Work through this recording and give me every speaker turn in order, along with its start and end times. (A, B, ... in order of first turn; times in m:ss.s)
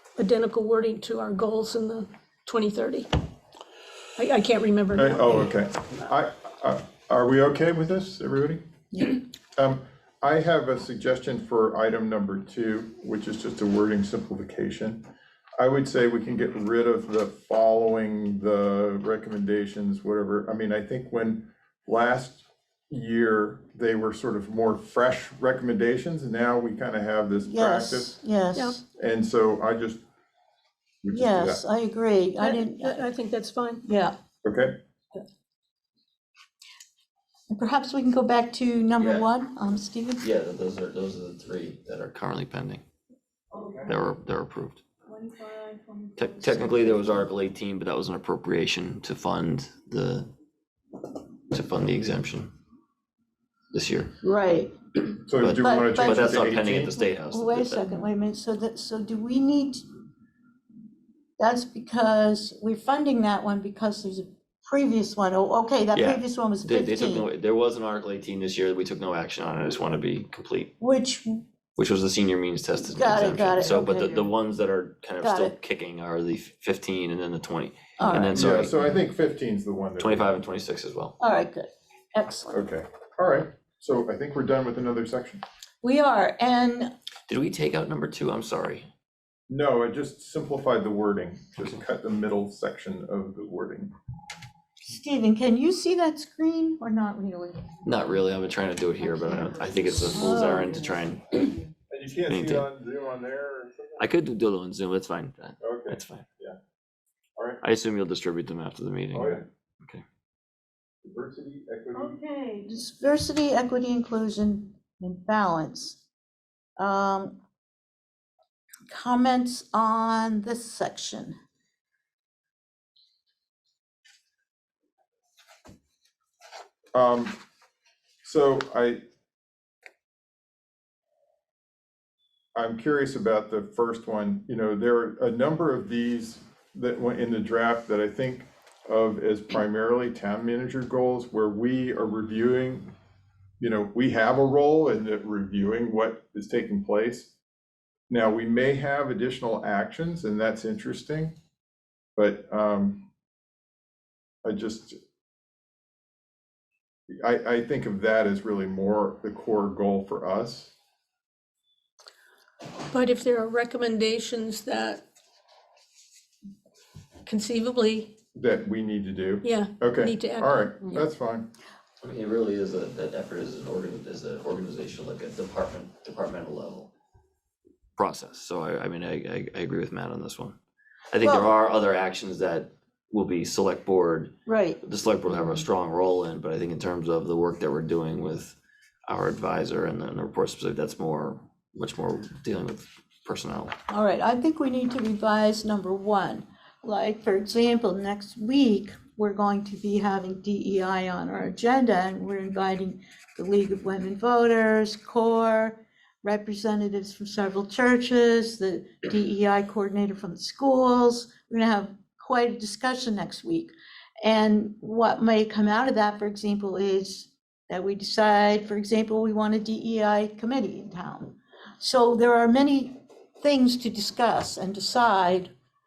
0:00.2-0:03.1 A
0:04.2-0:05.5 A
0:04.9-0:15.0 B
0:15.6-0:28.1 B
0:27.4-0:28.8 C
0:28.9-0:30.0 B
0:31.0-0:31.6 B
0:31.1-0:33.0 C
0:32.4-0:33.8 A
0:33.8-0:34.1 C
0:34.4-0:34.8 B
0:37.5-0:40.3 C
0:39.0-0:39.3 D
0:40.2-0:42.8 D
0:43.6-0:43.8 B
0:43.8-0:44.8 D
0:45.1-0:46.5 C
0:46.2-0:50.3 D
0:51.5-0:52.5 D
0:53.7-0:54.1 D
0:54.2-0:54.7 C
0:55.3-0:56.9 B
0:55.4-0:57.9 D
0:55.6-0:59.8 C
1:01.4-1:07.3 C
1:05.9-1:10.7 D
1:10.8-1:11.4 C
1:11.8-1:18.8 D
1:12.9-1:14.3 C
1:15.2-1:15.6 C
1:18.0-1:18.5 C
1:18.3-1:20.4 B
1:20.0-1:21.2 D
1:21.2-1:22.7 C
1:22.5-1:25.4 B
1:25.8-1:26.9 C
1:27.3-1:28.9 D
1:29.5-1:33.9 B
1:34.8-1:37.6 C
1:37.8-1:41.5 D
1:40.1-1:40.8 C
1:41.9-1:44.1 B
1:42.3-1:42.7 D
1:44.0-1:46.2 D
1:45.6-1:46.6 B
1:47.6-1:50.0 D
1:49.1-1:49.4 B
1:51.0-1:52.2 B
1:51.9-1:56.0 C
1:56.8-1:57.4 C
1:58.9-2:01.4 C
2:06.9-2:07.4 B
2:08.2-2:09.0 B
2:12.5-2:22.9 B
2:23.6-2:27.3 B
2:28.1-2:31.3 B
2:32.2-2:33.1 B
2:34.4-2:35.0 B
2:37.1-2:40.7 B
2:42.9-2:45.0 A
2:47.2-2:48.1 A
2:48.3-2:51.5 B
2:49.4-2:51.1 A
2:52.0-2:56.9 D
2:58.0-3:00.6 D
3:01.1-3:13.7 D
3:01.2-3:01.5 C
3:04.4-3:04.8 C
3:13.9-3:33.7 C
3:34.2-3:45.5 C